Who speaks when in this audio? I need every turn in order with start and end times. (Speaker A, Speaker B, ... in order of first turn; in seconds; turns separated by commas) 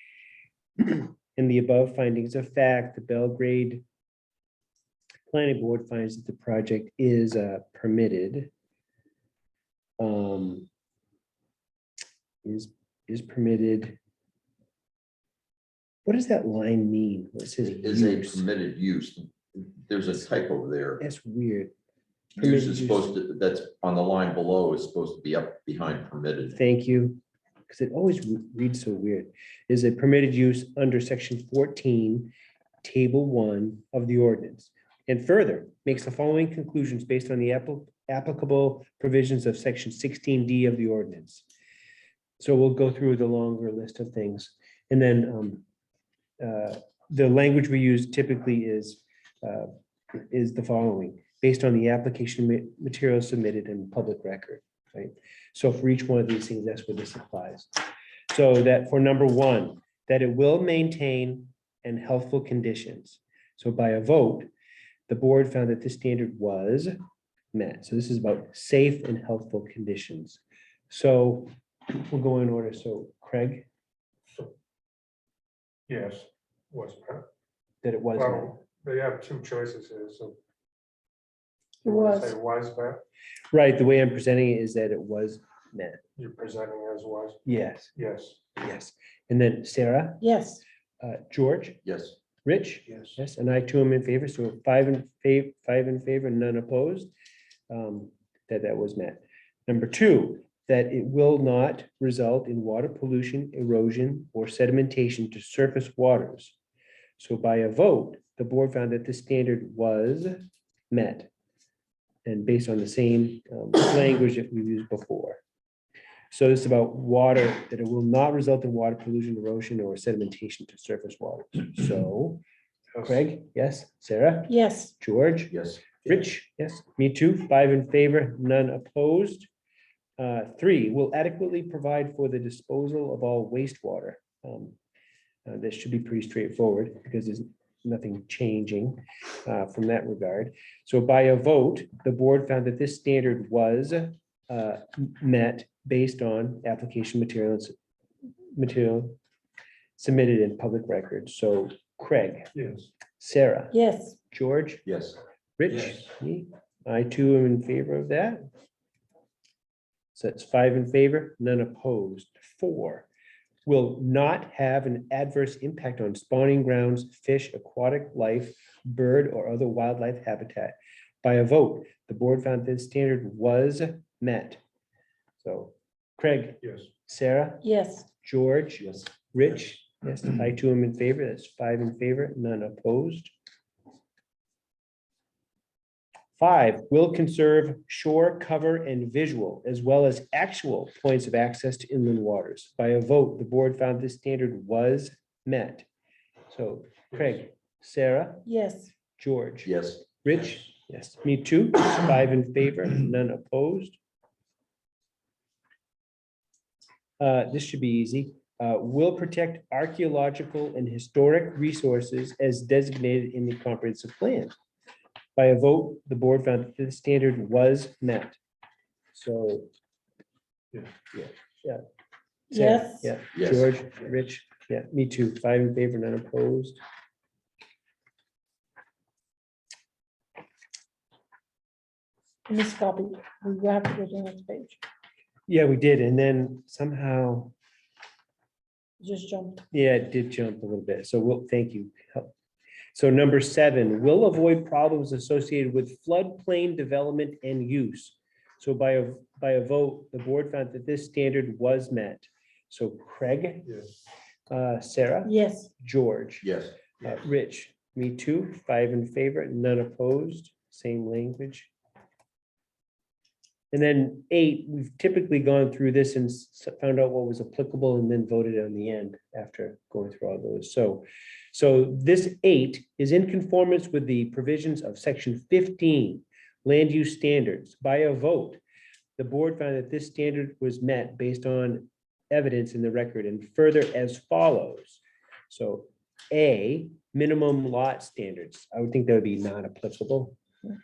Speaker A: 0.8-3.8, Speaker A: 5.3-8.5, Speaker A: 10.0-10.7, Speaker A: 12.4-14.0, Speaker A: 16.0-18.4, Speaker B: 17.6-21.0, Speaker A: 21.0-21.7, Speaker B: 22.3-26.6, Speaker A: 22.4-23.1, Speaker A: 26.5-32.3, Speaker A: 32.8-41.4, Speaker A: 42.4-45.6, Speaker A: 46.4-57.7, Speaker A: 58.3-64.5, Speaker A: 65.1-67.0, Speaker A: 67.5-71.5, Speaker A: 72.0-73.7, Speaker C: 75.9-77.2, Speaker A: 77.8-78.5, Speaker C: 78.1-80.4, Speaker D: 81.8-82.3, Speaker C: 81.8-83.0, Speaker A: 83.5-86.0, Speaker C: 86.2-87.4, Speaker A: 87.4-87.9, Speaker C: 87.9-88.4, Speaker A: 88.5-90.2, Speaker D: 90.2-90.6, Speaker A: 91.0-91.8, Speaker B: 91.8-92.2, Speaker A: 92.4-97.1, Speaker A: 97.7-106.5, Speaker A: 107.2-111.3, Speaker A: 112.2-115.4, Speaker A: 116.3-122.4, Speaker A: 123.0-129.5, Speaker D: 124.5-124.9, Speaker B: 125.5-126.1, Speaker A: 130.2-134.8, Speaker A: 135.4-147.7, Speaker A: 148.5-149.2, Speaker A: 150.0-152.5, Speaker C: 152.5-152.9, Speaker A: 153.2-154.8, Speaker D: 153.7-154.2, Speaker B: 154.8-155.2, Speaker A: 155.6-158.4, Speaker A: 160.1-163.1, Speaker A: 163.7-174.6, Speaker A: 175.4-183.3, Speaker C: 176.6-176.9, Speaker D: 177.6-178.1, Speaker A: 186.4-195.9, Speaker A: 196.5-198.5, Speaker D: 198.4-198.9, Speaker A: 199.2-204.0, Speaker B: 199.6-200.0, Speaker A: 207.2-214.5, Speaker A: 215.3-218.4, Speaker A: 219.1-219.7, Speaker A: 221.1-221.8, Speaker D: 222.5-223.1, Speaker A: 222.5-226.8, Speaker B: 223.3-223.7, Speaker D: 232.5-234.8, Speaker A: 235.5-237.5, Speaker D: 239.0-239.6, Speaker A: 239.7-242.3, Speaker A: 242.9-253.7, Speaker A: 254.5-261.7, Speaker D: 255.2-255.7, Speaker B: 256.4-256.8, Speaker A: 263.7-278.6, Speaker A: 279.2-290.4